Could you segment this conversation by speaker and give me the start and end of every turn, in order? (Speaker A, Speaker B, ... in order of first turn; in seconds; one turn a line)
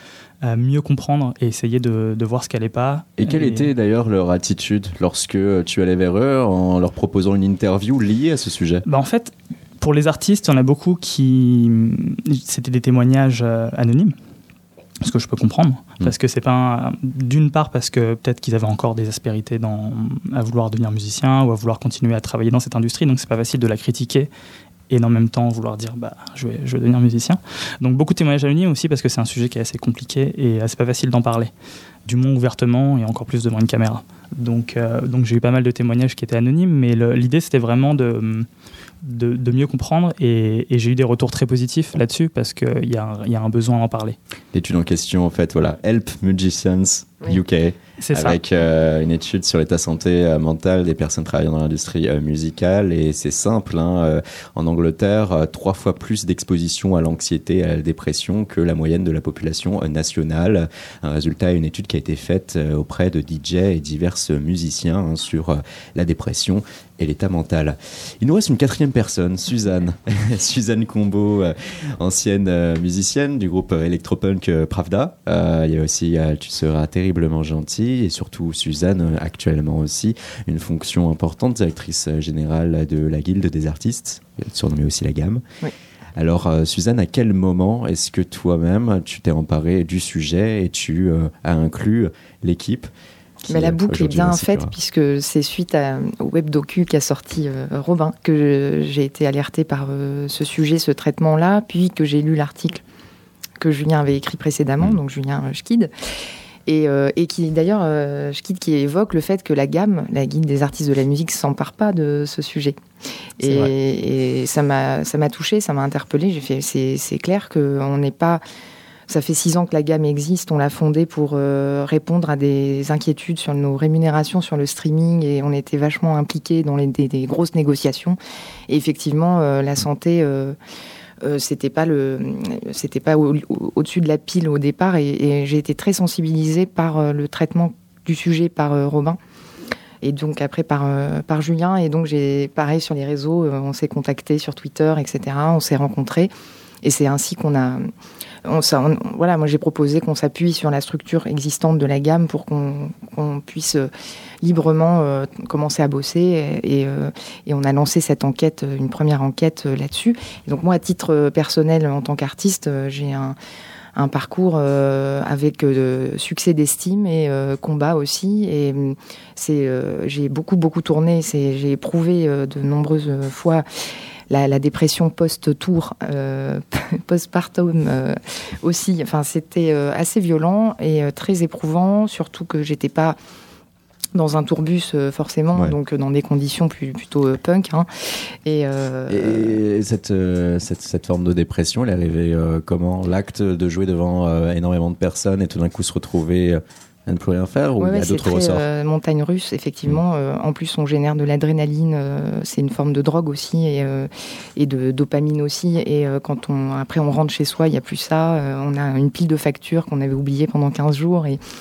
Speaker A: 0.4-3.7
Speaker B: 3.2-8.8
Speaker A: 8.9-14.2
Speaker A: 15.0-24.3
Speaker A: 24.9-31.5
Speaker A: 32.1-38.5
Speaker A: 39.0-44.2
Speaker B: 44.5-85.4
Speaker A: 48.0-48.4
Speaker B: 86.2-92.9
Speaker B: 93.4-94.7
Speaker C: 93.5-102.8
Speaker C: 103.6-105.9
Speaker C: 106.7-112.8
Speaker C: 113.4-118.4
Speaker C: 119.1-128.2
Speaker C: 128.7-130.6
Speaker C: 131.2-139.2
Speaker C: 140.0-146.3
Speaker C: 146.8-147.9
Speaker C: 148.4-153.9
Speaker C: 154.4-163.4
Speaker C: 163.9-173.7
Speaker C: 174.3-183.2
Speaker C: 184.1-187.9
Speaker C: 188.4-189.6
Speaker B: 189.1-198.7
Speaker C: 197.8-211.4